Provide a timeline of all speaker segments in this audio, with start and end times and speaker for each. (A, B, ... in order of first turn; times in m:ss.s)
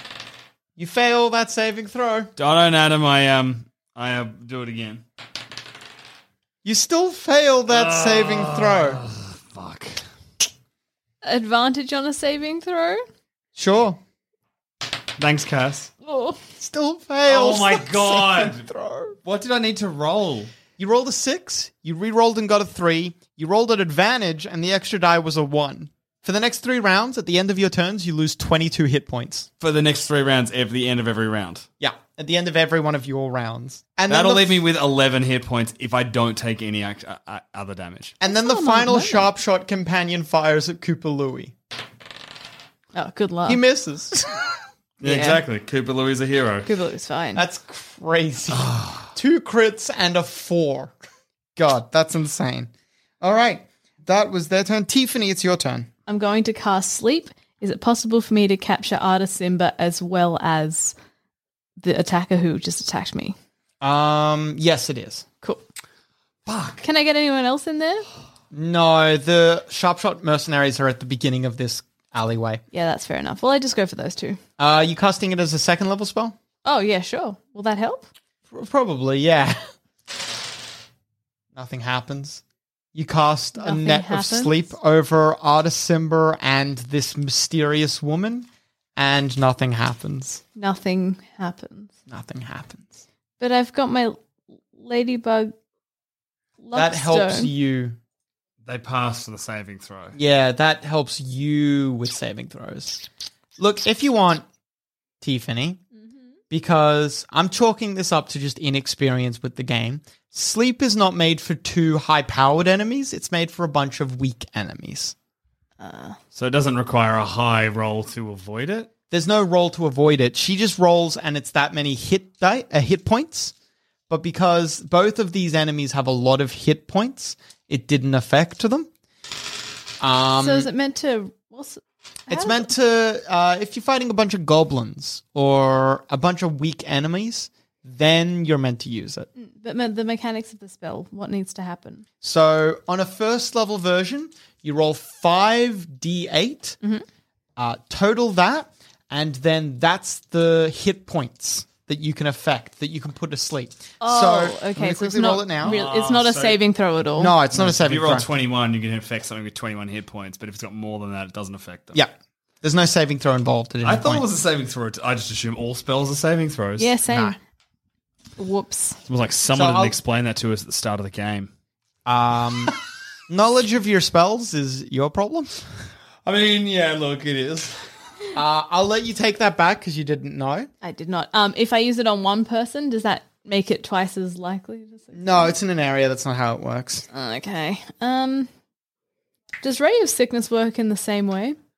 0:00.8-0:02.3 A
0:02.4-0:05.0 B
0:06.6-0:09.0 A
0:07.7-0:10.0 B
0:11.2-0:13.0 C
0:13.5-0:14.0 A
0:15.2-0:15.9 B
0:16.0-0:16.4 C
0:16.6-0:19.2 A
0:17.2-0:18.6 B
0:19.2-0:20.5 B
0:20.8-0:29.5 A
0:29.6-0:31.6 B
0:31.8-0:34.6 A
0:34.1-0:38.1 B
0:38.2-0:41.5 A
0:38.2-0:39.3 C
0:42.9-0:43.6 C
0:43.4-0:44.3 A
0:45.0-0:46.7 B
0:45.0-0:45.4 C
0:46.6-0:47.4 C
0:47.4-0:50.9 A
0:48.5-0:49.1 B
0:51.6-0:55.9 A
0:56.0-1:00.9 C
1:01.8-1:03.3 C
1:03.8-1:05.2 A
1:06.4-1:06.8 B
1:06.8-1:08.0 C
1:08.5-1:12.6 A
1:12.7-1:14.4 C
1:14.6-1:16.4 A
1:16.6-1:18.1 C
1:18.5-1:19.6 A
1:21.5-1:22.4 A
1:22.9-1:30.4 A
1:23.6-1:24.5 C
1:30.6-1:31.9 C
1:32.1-1:33.0 A
1:33.4-1:34.2 C
1:34.7-1:35.5 C
1:36.6-1:37.5 C
1:36.7-1:38.0 A
1:38.6-1:40.2 B
1:40.1-1:43.0 A
1:43.6-1:44.4 A
1:45.2-1:45.8 A
1:46.5-1:55.1 A
1:55.8-1:56.2 C
1:56.3-1:58.9 B
1:59.1-2:03.5 A
2:04.1-2:08.9 A
2:10.0-2:10.7 A
2:10.4-2:12.7 C
2:12.3-2:19.3 A
2:19.4-2:22.0 C
2:22.2-2:26.8 A
2:27.6-2:35.8 A
2:34.0-2:37.3 C
2:35.6-2:36.6 B
2:37.2-2:38.3 A
2:37.5-2:42.0 B
2:41.9-2:44.3 A
2:43.8-2:46.9 B
2:46.8-2:47.4 C
2:47.1-2:47.4 A
2:48.4-2:49.0 C
2:49.1-2:51.5 B
2:49.5-2:50.0 A
2:52.0-2:52.8 A
2:53.3-2:55.5 A
2:56.2-2:57.8 B
2:58.3-3:00.7 A
3:00.8-3:05.5 C
3:05.1-3:07.0 A
3:07.1-3:08.5 C
3:09.6-3:11.6 C